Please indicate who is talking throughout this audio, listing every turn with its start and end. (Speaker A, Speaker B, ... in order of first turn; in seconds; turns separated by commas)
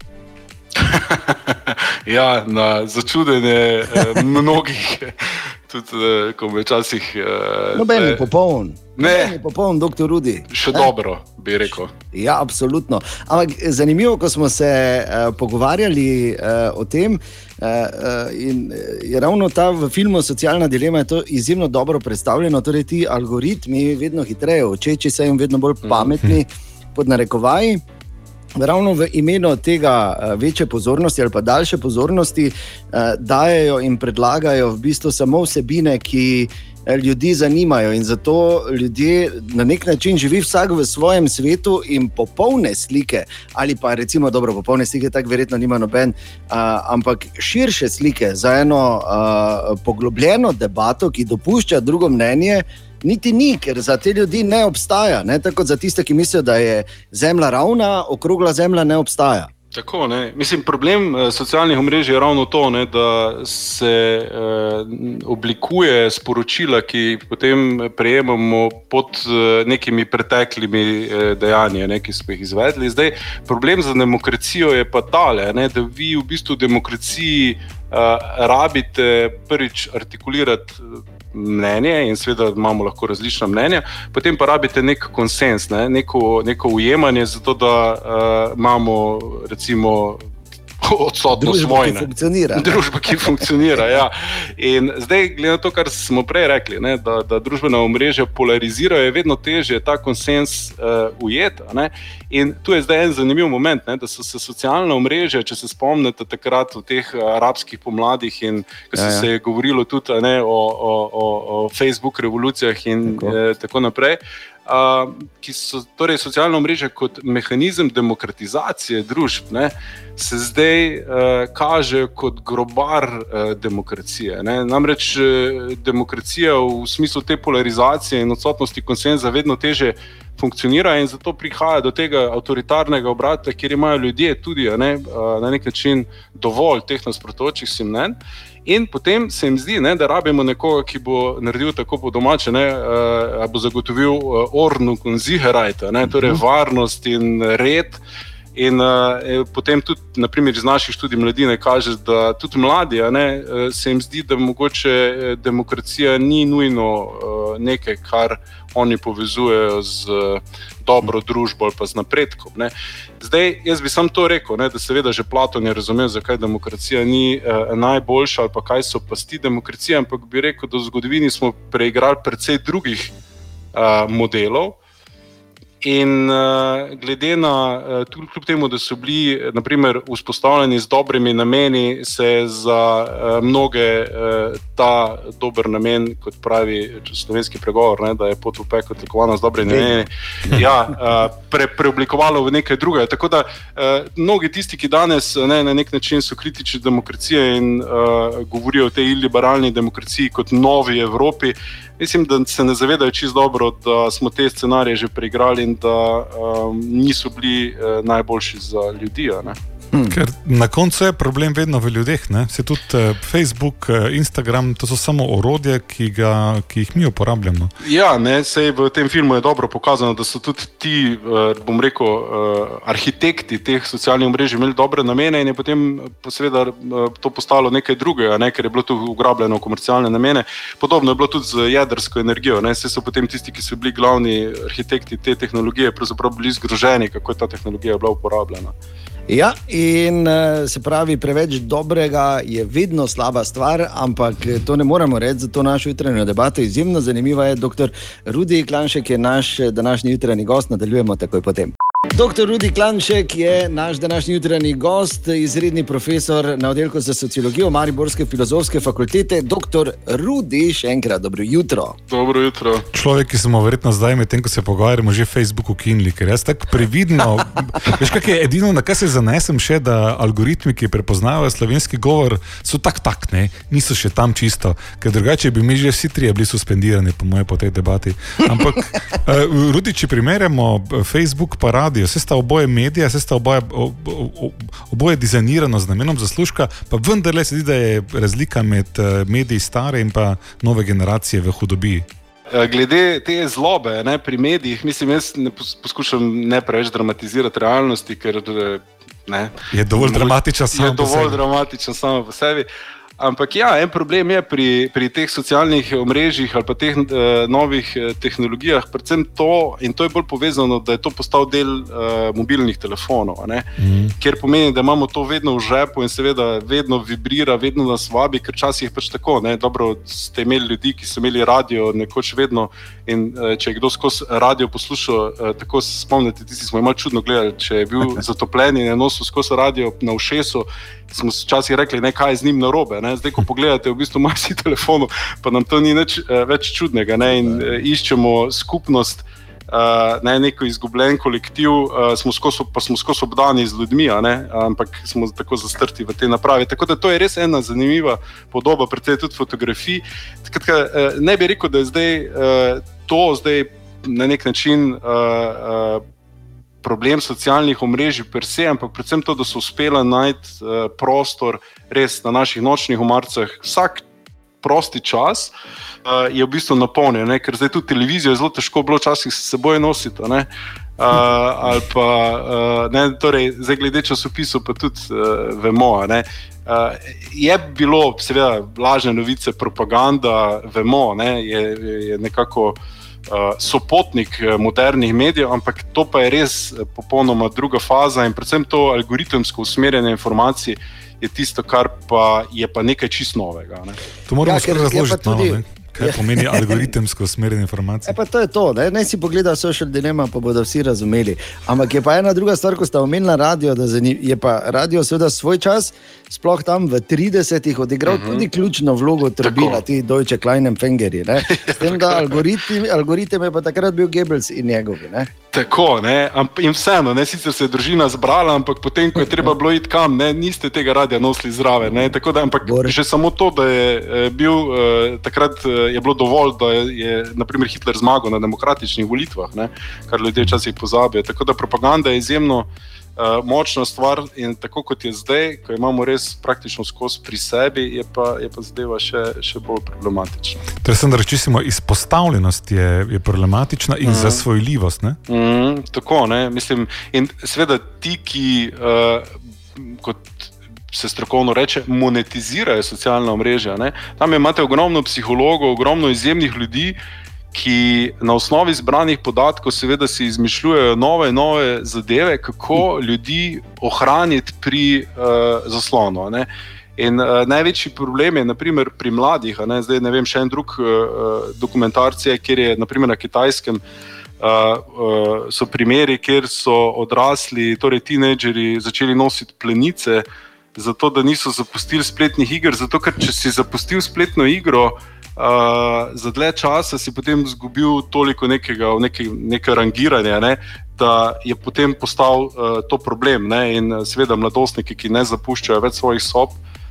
Speaker A: 0.8-8.3, Speaker B: 7.7-10.9, Speaker A: 9.0-9.3, Speaker A: 10.5-11.9, Speaker B: 12.1-27.8, Speaker A: 25.8-26.1, Speaker B: 28.6-59.5, Speaker A: 59.7-90.2, Speaker A: 90.8-148.0, Speaker B: 91.3-92.8, Speaker B: 109.0-109.3, Speaker B: 113.0-113.3, Speaker A: 148.5-173.1, Speaker A: 173.7-174.8, Speaker A: 175.8-209.6, Speaker B: 189.7-190.0, Speaker C: 210.1-217.7, Speaker A: 217.8-238.7, Speaker B: 239.3-262.0, Speaker A: 262.1-262.9, Speaker C: 262.9-292.1, Speaker A: 292.5-302.6, Speaker C: 299.7-301.4, Speaker A: 303.2-356.0, Speaker C: 313.8-314.1, Speaker A: 356.8-364.0, Speaker A: 364.6-365.5, Speaker A: 366.0-370.5, Speaker A: 371.0-394.0, Speaker C: 394.3-398.1, Speaker B: 394.4-396.8, Speaker B: 398.1-415.3, Speaker A: 408.1-408.4, Speaker A: 409.4-409.8, Speaker A: 411.4-412.4, Speaker A: 415.5-440.6, Speaker B: 422.6-422.9, Speaker C: 440.8-445.2, Speaker A: 444.0-444.4, Speaker A: 445.3-457.0, Speaker A: 457.5-473.8, Speaker A: 474.4-496.6